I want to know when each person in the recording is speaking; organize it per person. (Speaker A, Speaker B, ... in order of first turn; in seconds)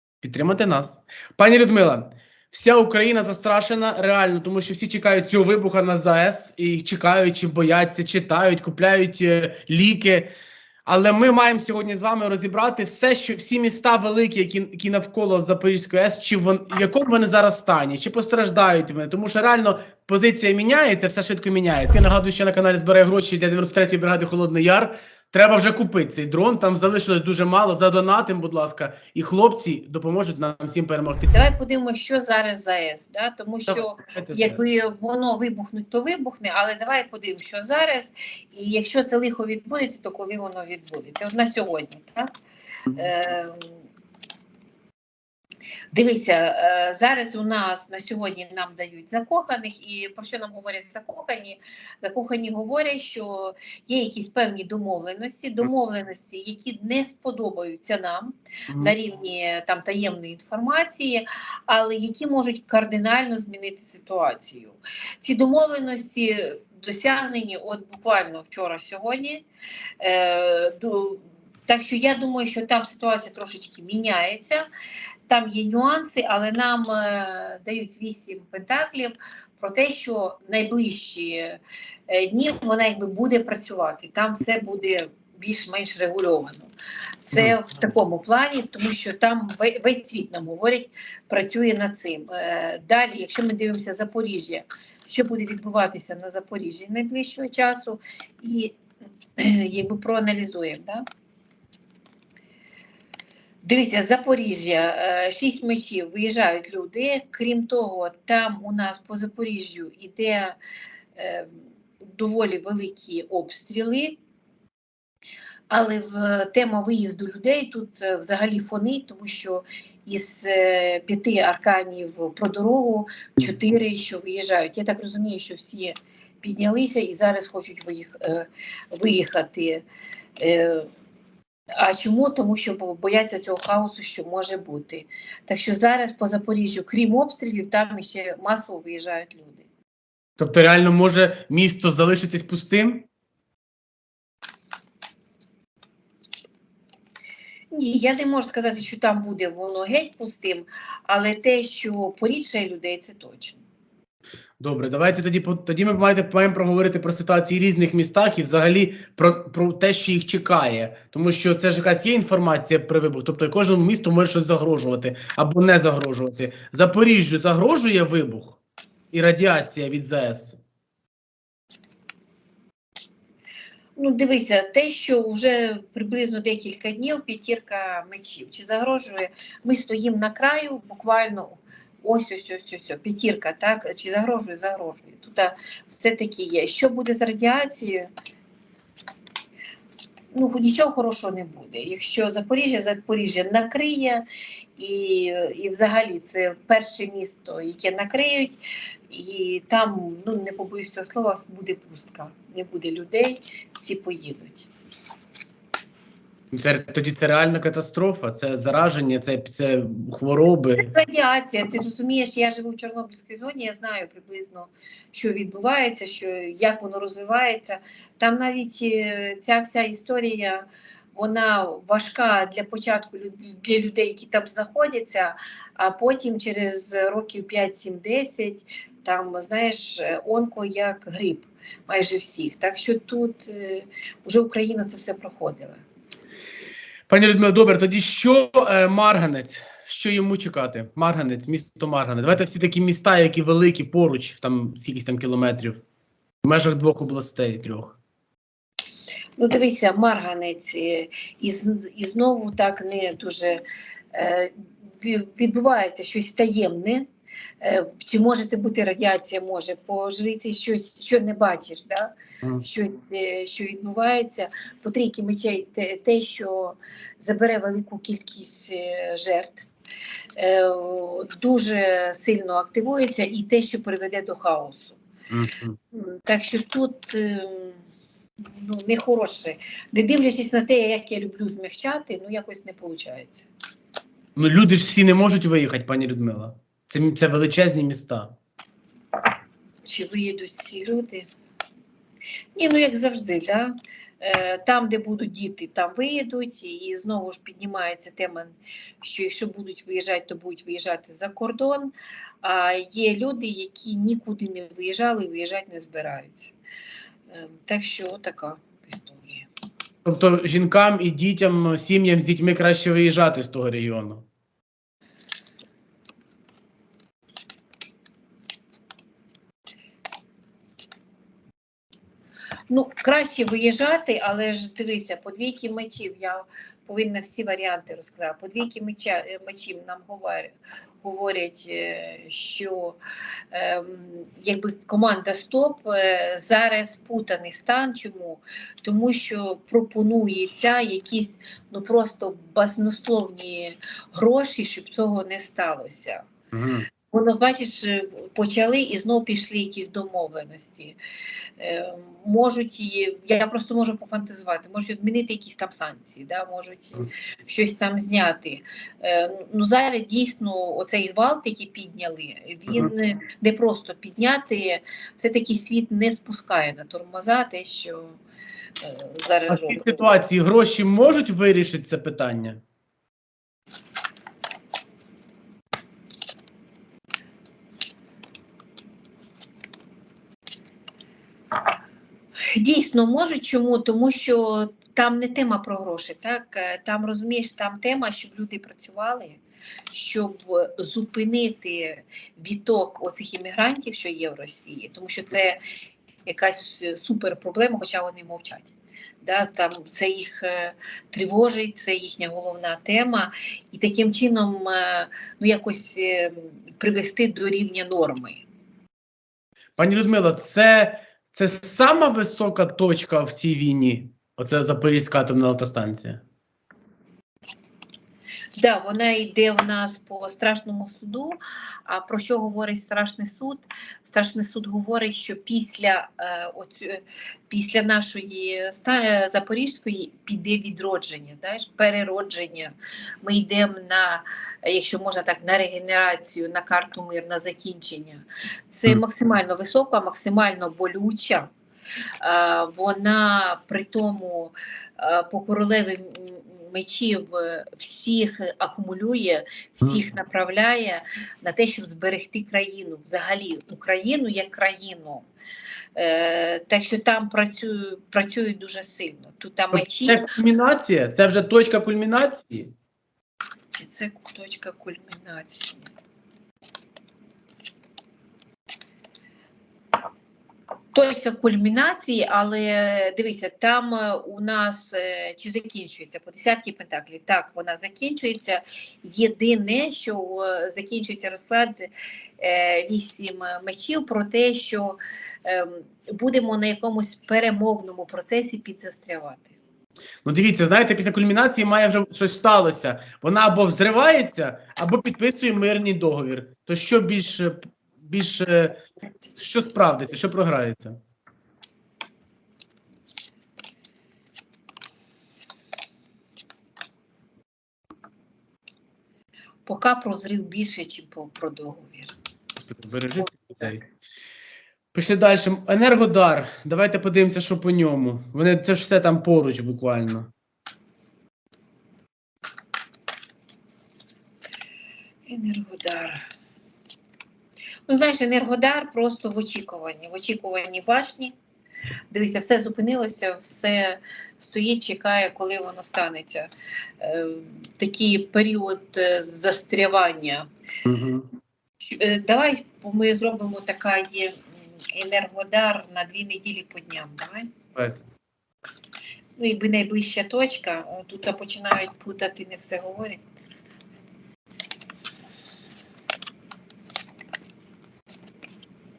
Speaker A: 0.2-10.3, 10.8-31.3, 33.7-34.6, 140.4-143.1, 154.6-168.6, 169.1-170.6, 206.5-210.9, 237.1-245.8, 246.4-248.0, 275.3-275.8, 284.4-288.3, 310.0-314.2, 346.5-346.9, 369.5-372.6, 409.8-416.2, 459.7-462.7, 490.2-498.8, 499.4-501.0, 512.6-513.8, 514.9-520.3, 540.9-541.3, 547.7-548.0
Speaker B: 31.3-42.3, 43.0-43.7, 45.9-69.4, 70.0-74.7, 75.3-86.7, 87.2-98.8, 99.4-101.0, 103.6-110.6, 111.2-114.2, 115.7-129.8, 130.4-130.9, 131.8-139.6, 147.7-153.6, 173.9-188.1, 190.3-194.2, 194.8-198.6, 199.1-204.7, 210.8-235.8, 249.4-257.1, 257.6-269.7, 270.4-275.0, 275.9-277.8, 278.4-283.5, 289.8-291.3, 292.6-306.5, 307.3-309.5, 322.7-333.0, 333.5-346.2, 347.1-350.9, 351.6-368.2, 368.8-370.1, 382.5-389.4, 389.9-395.6, 396.2-398.7, 399.2-408.4, 418.6-441.5, 442.2-455.2, 455.9-460.3, 463.7-465.9, 470.9-489.5, 509.6-512.1, 525.3-526.2, 527.9-531.3, 532.1-536.5, 537.0-540.5, 541.8-544.4, 544.9-547.5, 549.4-553.2